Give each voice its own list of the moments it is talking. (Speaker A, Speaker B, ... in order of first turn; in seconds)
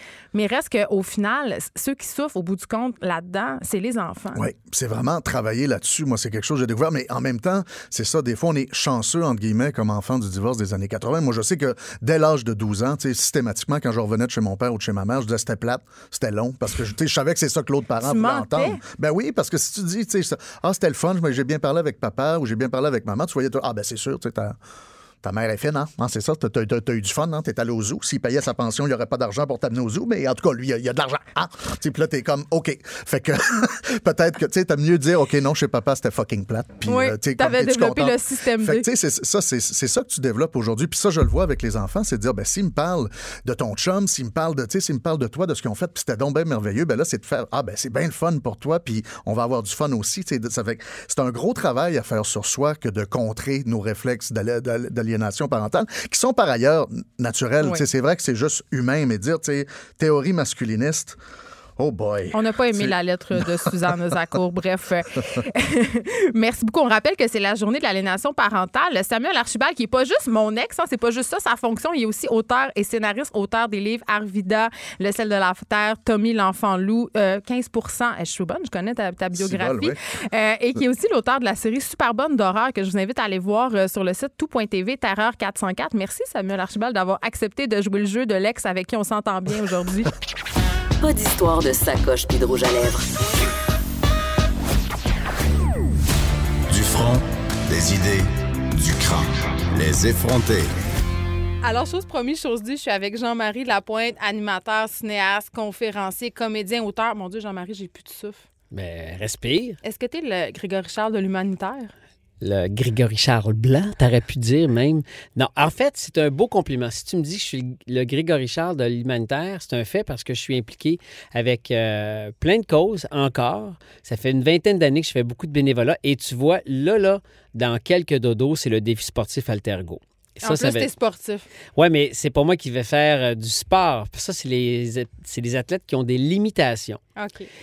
Speaker A: 0.3-4.5, 18.0-18.8, 36.9-38.9, 62.3-90.1, 101.6-108.4, 109.8-111.9, 130.4-131.5, 137.2-137.5
Speaker B: 4.3-24.6, 25.2-61.2, 61.8-63.9, 79.3-80.0
Speaker C: 91.0-93.1
Speaker D: 96.7-100.7
Speaker E: 108.7-109.8, 112.4-130.9, 131.8-137.0